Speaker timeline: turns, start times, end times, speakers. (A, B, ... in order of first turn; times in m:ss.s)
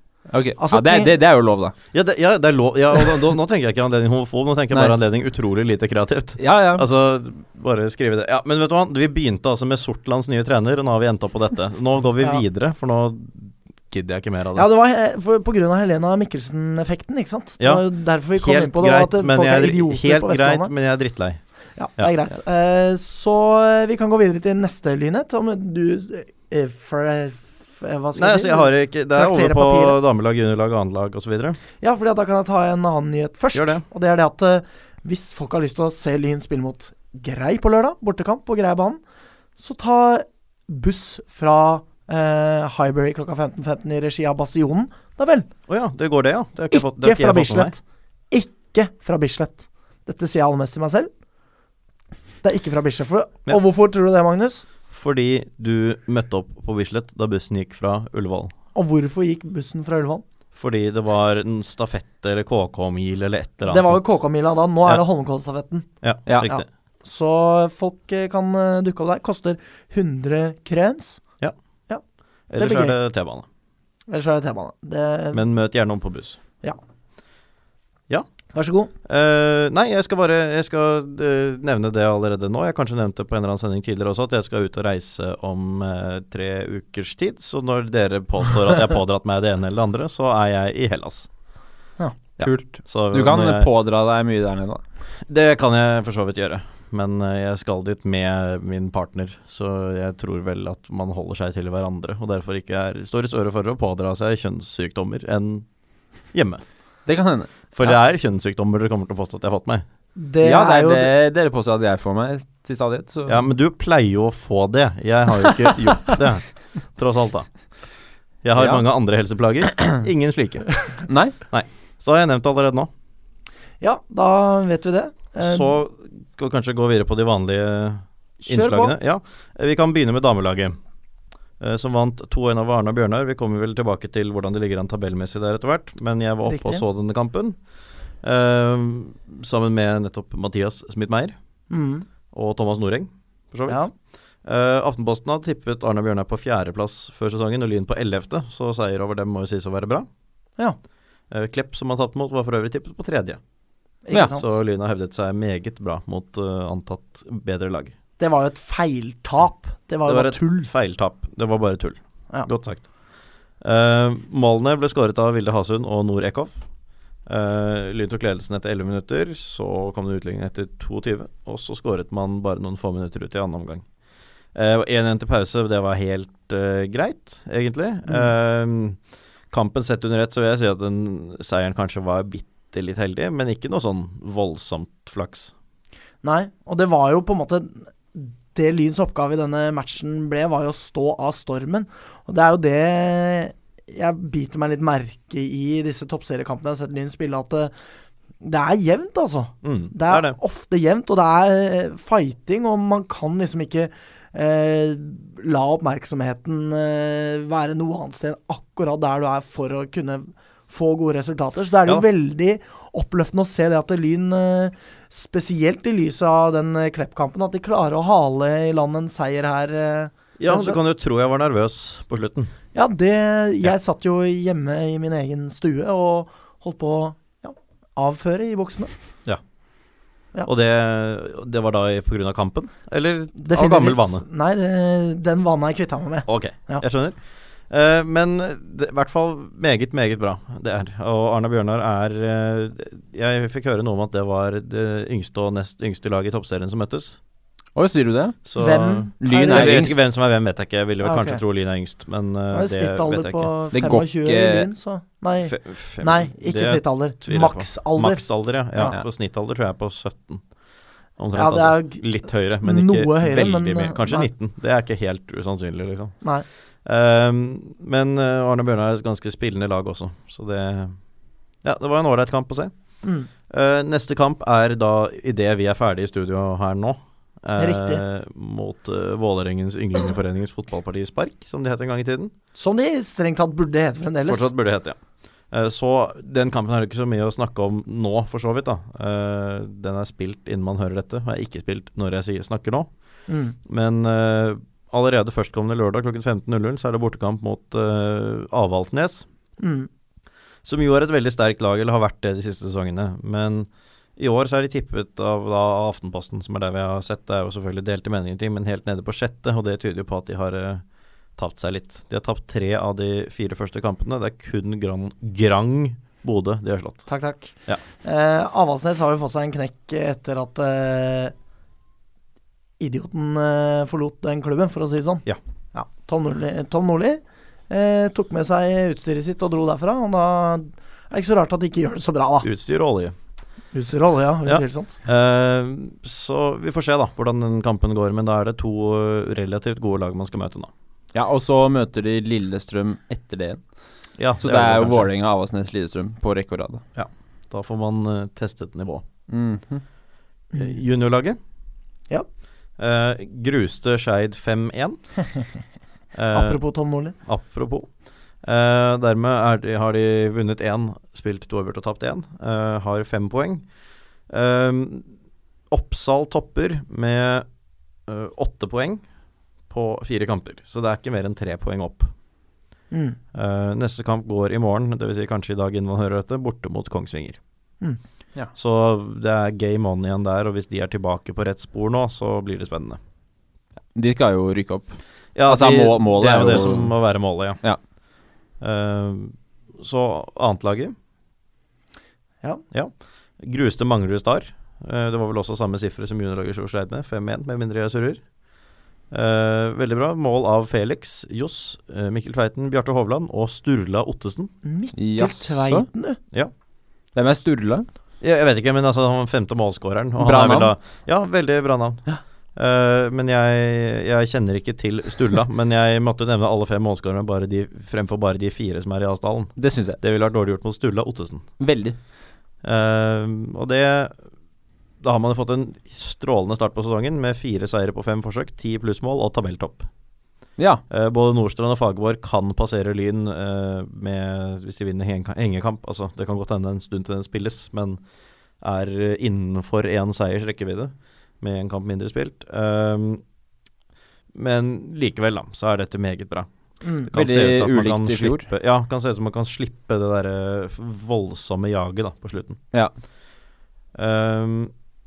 0:00.3-0:01.7 A
0:00.6-0:01.1 B
0:01.9-0:14.7 C
0:06.4-0:06.8 A
0:14.6-0:20.7 B
0:17.6-0:21.4 C
0:21.8-0:30.0 B
0:28.1-0:31.6 C
0:31.8-0:39.0 B
0:33.5-0:33.8 C
0:39.6-0:45.5 B
0:45.7-0:47.8 C
0:46.7-0:51.1 B
0:52.4-0:54.6 B
0:54.9-0:58.5 C
0:58.7-1:00.2 B
1:00.5-1:04.0 C
1:03.6-1:05.9 B
1:06.0-1:06.6 C
1:06.4-1:11.2 B
1:12.5-1:13.4 C
1:12.6-1:13.0 B
1:14.1-1:15.4 B
1:15.3-1:16.4 C
1:18.5-1:18.9 B
1:19.0-1:31.3 C
1:32.4-1:33.7 C
1:32.4-1:34.8 A
1:35.3-1:45.6 C
1:46.3-1:46.6 C
1:47.0-1:47.9 A
1:47.7-1:49.8 C
1:50.2-1:51.1 B
1:50.4-1:53.4 A
1:53.3-1:57.5 C
1:58.4-2:00.7 C
1:58.6-1:58.8 A
2:01.1-2:01.3 A
2:01.5-2:02.9 C
2:03.8-2:05.7 B
2:05.4-2:10.8 C
2:08.4-2:08.9 B
2:11.6-2:17.6 C
2:16.4-2:16.8 B
2:18.2-2:21.3 C
2:21.7-2:22.0 B
2:22.3-2:23.9 C
2:24.4-2:30.1 C
2:31.3-2:33.4 C
2:34.0-2:34.5 B
2:34.3-2:37.9 C
2:38.2-2:40.7 B
2:40.0-2:42.9 C
2:43.6-2:46.6 C
2:47.2-2:53.8 C
2:54.5-2:59.0 C
2:59.5-3:05.5 C
3:06.2-3:17.7 B
3:18.4-3:40.8 B
3:19.6-3:20.4 C
3:40.4-3:42.5 C
3:42.7-3:48.9 B
3:50.4-3:54.2 C
3:53.4-3:56.8 B
3:56.3-4:07.2 C
4:07.7-4:08.6 A
4:08.4-4:13.5 C
4:08.6-4:10.0 B
4:09.2-4:10.0 A
4:11.0-4:11.4 B
4:12.5-4:18.2 B
4:13.7-4:14.7 A
4:15.4-4:20.4 C
4:21.2-4:26.2 C
4:21.3-4:24.3 B
4:26.8-4:31.0 C
4:31.6-4:32.7 C
4:33.0-4:33.3 B
4:33.5-4:42.3 C
4:37.6-4:38.0 B
4:42.5-4:44.5 B
4:44.2-4:45.0 C
4:45.5-4:52.9 C
4:53.3-4:53.6 B
4:53.6-4:59.2 C
4:59.6-4:59.9 B
5:00.6-5:10.8 C
5:11.4-5:17.1 C
5:17.1-5:21.3 B
5:22.8-5:32.5 B
5:32.4-5:33.1 C
5:33.7-5:35.0 B
5:34.4-5:40.7 C
5:41.1-5:43.6 A
5:44.2-5:45.1 C
5:44.4-5:46.8 A
5:46.9-5:49.0 C
5:49.3-5:49.8 A
5:50.5-5:51.4 C
5:52.8-5:55.0 C
5:56.1-5:56.6 C
5:56.3-5:57.1 B
5:57.2-5:57.9 C
5:58.4-6:03.6 C
6:04.3-6:05.1 C
6:05.7-6:07.5 C
6:08.1-6:09.0 C
6:09.7-6:12.1 C
6:12.9-6:13.2 B
6:13.3-6:17.4 C
6:18.5-6:23.0 C
6:23.9-6:27.0 A
6:25.3-6:27.6 C
6:28.6-6:30.9 C
6:32.7-6:38.2 C
6:39.1-6:44.5 C
6:44.6-6:46.2 B
6:45.0-6:45.8 A
6:47.1-6:47.9 A
6:48.2-6:52.0 C
6:50.2-6:50.7 A
6:52.6-7:01.4 C
6:59.6-7:00.0 A
7:01.6-7:02.0 A
7:02.6-7:04.2 C
7:05.0-7:09.9 C
7:10.9-7:18.0 C
7:18.6-7:23.2 C
7:24.3-7:26.5 C
7:26.8-7:27.1 B
7:27.1-7:32.6 C
7:27.1-7:28.5 A
7:33.9-7:34.7 C